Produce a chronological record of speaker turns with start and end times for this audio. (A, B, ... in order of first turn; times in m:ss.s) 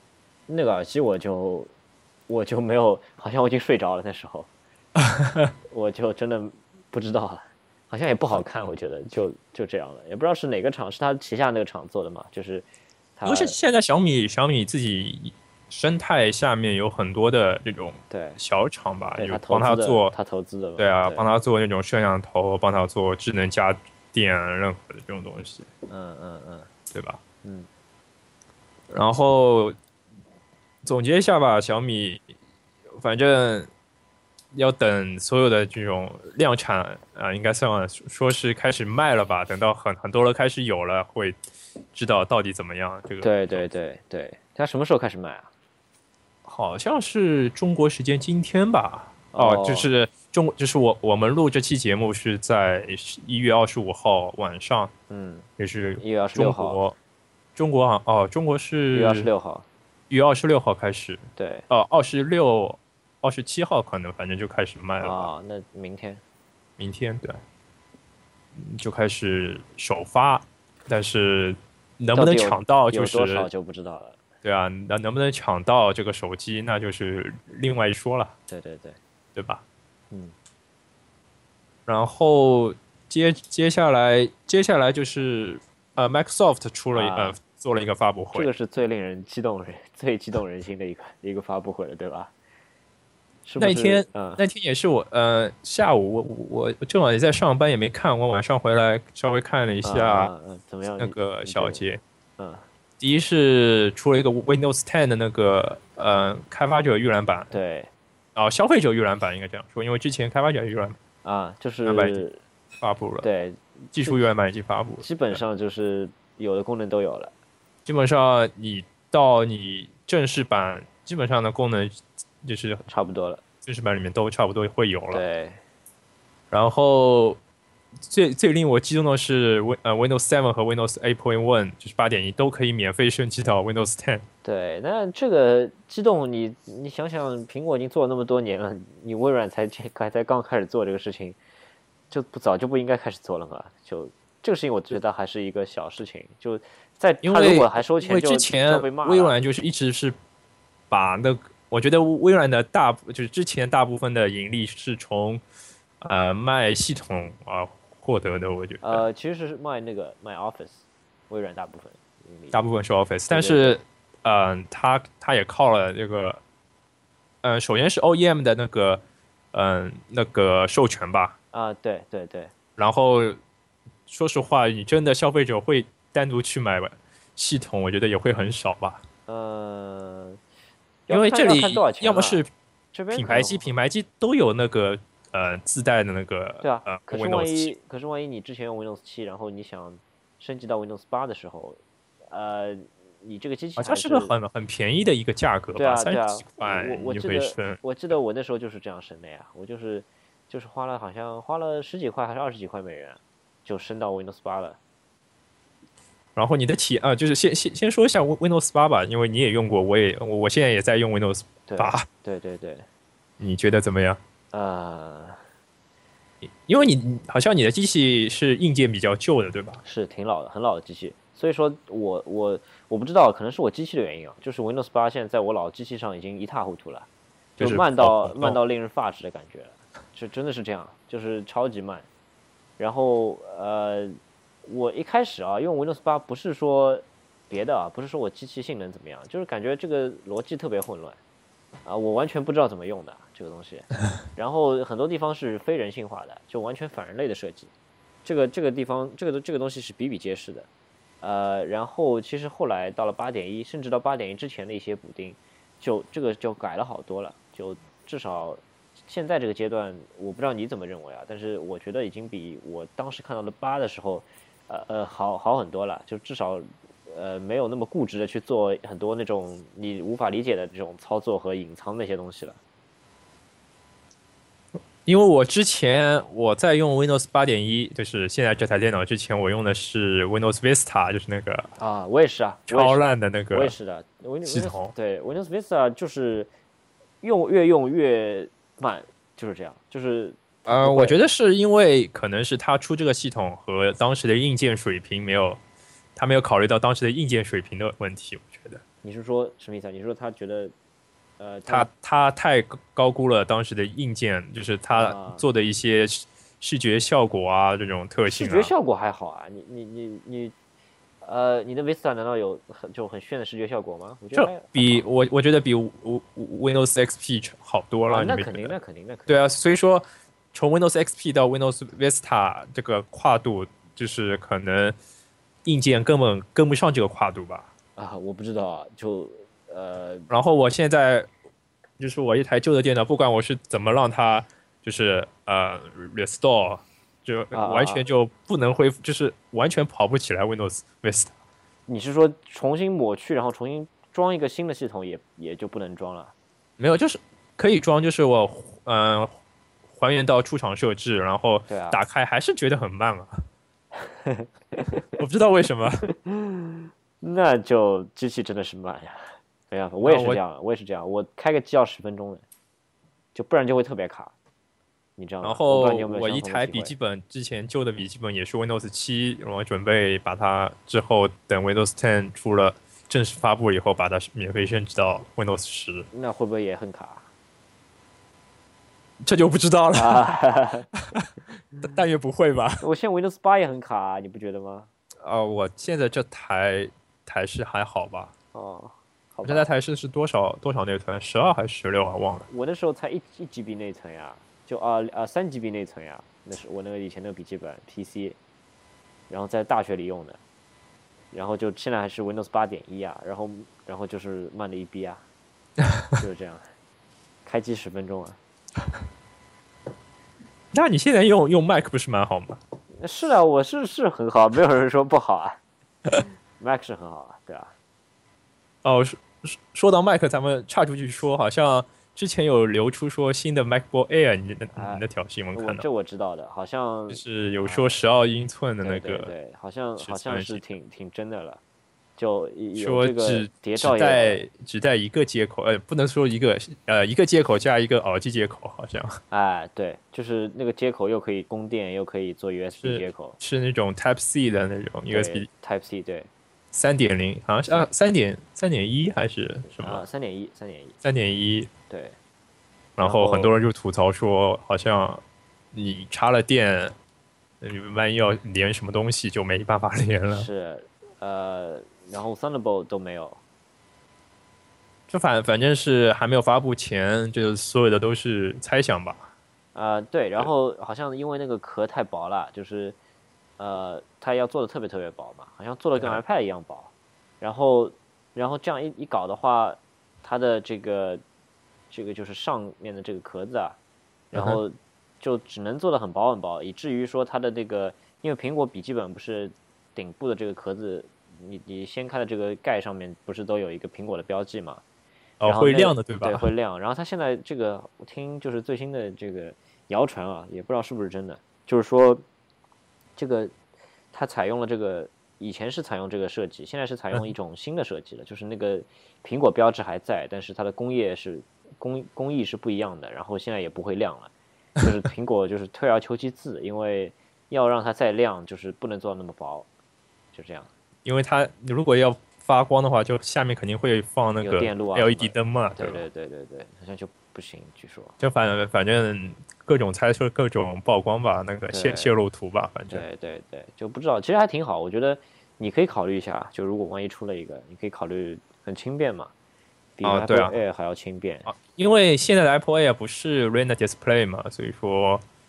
0:00.5-0:01.7 A
0:02.3-0:04.5 A
0:05.0-0:05.5 B
0:05.7-0:13.6 A
0:13.2-0:20.1 B
0:18.1-0:18.4 A
0:19.1-0:21.3 A
0:20.8-0:25.7 B
0:25.9-0:26.7 A
0:26.9-0:27.2 B
0:28.9-0:29.8 B
0:30.8-0:32.3 B
0:32.9-0:33.7 B
0:34.5-0:41.4 B
0:41.9-0:43.7 B
0:43.2-0:45.5 A
0:46.4-0:54.9 B
0:49.3-0:49.9 A
0:55.1-0:55.5 A
0:55.6-0:57.0 B
0:56.0-0:56.8 A
0:57.6-0:59.3 B
0:58.9-0:59.6 A
1:00.1-1:05.3 B
1:01.4-1:01.7 A
1:05.0-1:06.2 A
1:06.8-1:07.4 B
1:08.6-1:13.5 B
1:12.1-1:14.2 A
1:14.4-1:18.3 B
1:18.5-1:19.0 A
1:19.4-1:19.6 B
1:21.9-1:28.5 B
1:26.9-1:27.4 A
1:28.3-1:32.3 A
1:33.5-1:34.4 A
1:33.6-1:40.3 B
1:39.8-1:41.8 A
1:41.0-1:42.0 B
1:42.4-1:42.6 A
1:43.0-1:47.5 B
1:47.5-1:47.9 A
1:48.4-1:51.0 B
1:51.2-1:52.4 A
1:51.8-1:52.2 B
1:52.8-1:53.3 B
1:53.2-1:54.3 A
1:53.9-1:55.4 B
1:55.0-1:57.3 A
1:57.9-2:02.8 B
2:02.9-2:03.4 A
2:03.6-2:05.2 B
2:05.1-2:05.6 A
2:06.5-2:07.4 B
2:08.0-2:14.2 B
2:14.4-2:21.4 A
2:22.1-2:29.4 A
2:27.2-2:30.2 B
2:30.9-2:35.4 B
2:36.0-2:39.0 B
2:38.8-2:42.6 A
2:42.5-2:46.4 B
2:43.3-2:43.8 A
2:47.4-2:49.0 B
2:49.5-2:51.4 B
2:51.5-2:52.5 A
2:52.8-2:53.4 B
2:54.1-2:59.0 B
2:59.3-3:00.4 A
3:01.1-3:02.4 A
3:01.1-3:02.5 B
3:02.9-3:03.7 A
3:03.1-3:07.7 B
3:06.6-3:11.8 A
3:12.3-3:14.4 A
3:13.8-3:17.8 B
3:15.8-3:24.8 A
3:26.4-3:32.1 B
3:31.7-3:32.9 A
3:33.4-3:34.2 B
3:34.5-3:35.4 A
3:36.4-3:39.8 B
3:39.8-3:47.1 A
3:47.6-3:48.6 B
3:47.6-3:52.1 A
3:52.8-4:01.2 A
4:01.8-4:07.7 A
4:08.2-4:10.7 A
4:11.2-4:32.6 A
4:35.0-4:41.7 B
4:41.8-4:46.5 A
4:42.7-4:43.8 B
4:44.4-4:44.9 B
4:47.2-4:51.3 A
4:50.7-4:55.6 B
4:56.2-4:58.8 B
4:59.0-5:00.7 A
5:01.4-5:01.9 A
5:01.7-5:08.7 B
5:04.9-5:05.4 A
5:08.3-5:10.6 A
5:11.2-5:15.0 A
5:14.3-5:18.8 B
5:18.1-5:19.4 A
5:19.3-5:25.0 B
5:25.6-5:27.7 B
5:28.0-5:30.3 A
5:30.3-5:31.3 B
5:32.0-5:41.3 B
5:37.5-5:38.0 A
5:41.9-5:46.3 A
5:46.8-5:49.3 B
5:49.9-5:53.4 B
5:51.7-5:52.0 A
5:54.0-5:55.2 A
5:55.2-5:56.0 B
5:56.1-6:02.4 A
6:00.0-6:00.4 B
6:03.3-6:04.3 A
6:05.2-6:06.9 A
6:05.4-6:16.1 B
6:16.1-6:17.3 A
6:19.2-6:20.4 B
6:19.9-6:20.9 A
6:20.9-6:21.3 B
6:21.8-6:22.8 B
6:22.8-6:24.9 A
6:25.2-6:28.3 B
6:28.5-6:29.7 A
6:29.4-6:32.5 B
6:32.5-6:38.4 A
6:39.3-6:40.4 A
6:41.3-6:45.2 A
6:46.2-6:46.6 A
6:47.5-6:48.4 A
6:50.7-6:52.6 B
6:53.0-6:55.6 A
6:56.6-6:57.7 A
6:58.8-7:05.8 B
7:04.7-7:05.0 A
7:05.6-7:08.0 A
7:07.1-7:09.3 B
7:08.8-7:11.6 A
7:10.0-7:10.7 B
7:12.2-7:14.4 A
7:12.8-7:19.2 B
7:19.3-7:23.4 A
7:22.8-7:25.5 B
7:25.1-7:26.3 A
7:26.7-7:30.0 B
7:29.7-7:31.0 A
7:31.0-7:31.7 B
7:31.9-7:32.2 A
7:33.0-7:35.2 B
7:33.0-7:33.5 A
7:35.7-7:36.9 B
7:37.6-7:40.5 B
7:40.3-7:43.4 A
7:45.1-7:49.3 B
7:49.8-7:53.0 A
7:53.6-8:01.2 A
8:01.9-8:03.8 A
8:04.3-8:14.8 A
8:04.3-8:04.6 B
8:15.4-8:16.5 B
8:15.5-8:22.2 A
8:23.2-8:23.5 A
8:24.1-8:39.7 A
8:40.3-8:40.7 A
8:41.0-8:46.1 B
8:44.4-8:48.1 A
8:48.2-8:53.0 B
8:51.7-8:52.1 A
8:52.9-8:59.3 A
9:00.0-9:01.5 A
9:00.0-9:00.6 B
9:01.5-9:05.2 B